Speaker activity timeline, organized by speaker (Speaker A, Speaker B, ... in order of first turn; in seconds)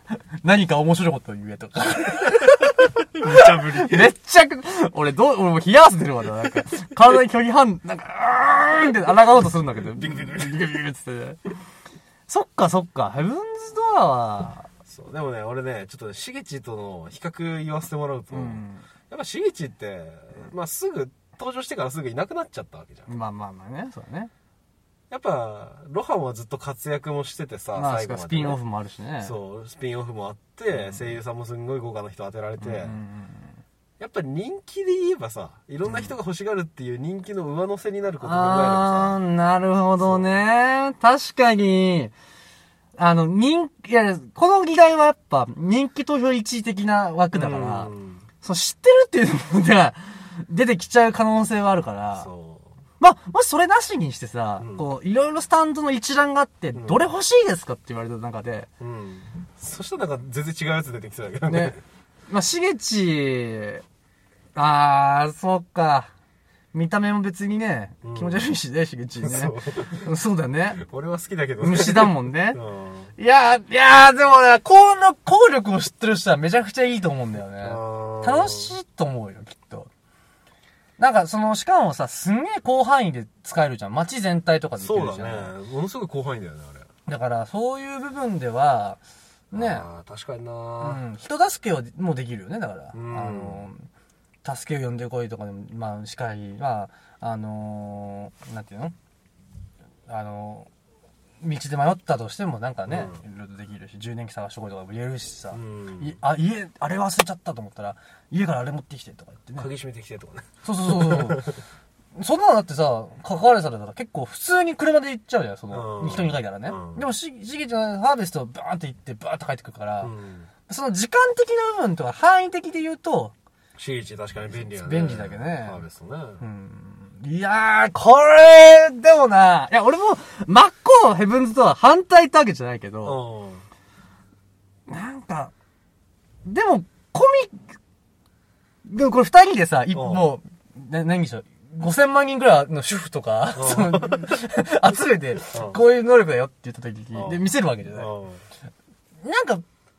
Speaker A: 0.4-11.4, 12.3-14.7, 18.3-18.8, 23.1-24.3, 27.7-29.3, 30.8-31.1, 32.6-33.6, 35.9-36.1, 38.2-42.1, 43.0-52.3, 53.0-58.7, 61.5-61.8, 62.3-63.8, 64.5-66.1, 66.7-70.8, 71.6-72.6, 73.2-79.9, 81.0-85.5, 87.1-89.0, 89.5-89.9, 90.8-93.9, 94.4-99.0, 100.1-100.7, 101.4-109.7, 110.6-111.5, 112.1-120.1, 120.7-123.3, 124.7-125.8, 126.4-133.2, 134.9-135.5, 136.4-137.7, 138.8-148.1, 149.2-149.6
Speaker B: 3.1-4.1, 10.0-10.6, 14.9-23.1, 25.1-28.6, 29.2-33.0, 34.0-39.2, 40.0-40.4, 47.3-48.2, 52.1-52.7, 54.6-54.8, 56.7-57.0, 58.8-61.8, 68.0-68.5, 69.2-70.1, 70.8-73.1, 77.6-78.7, 84.8-86.9, 89.5-91.0, 92.9-93.6, 102.9-103.2, 105.5-106.2, 109.6-111.6, 115.7-117.0, 120.0-120.5, 123.8-126.4, 133.0-133.6, 139.9-140.3, 143.5-144.3, 145.5-145.8, 147.1-148.4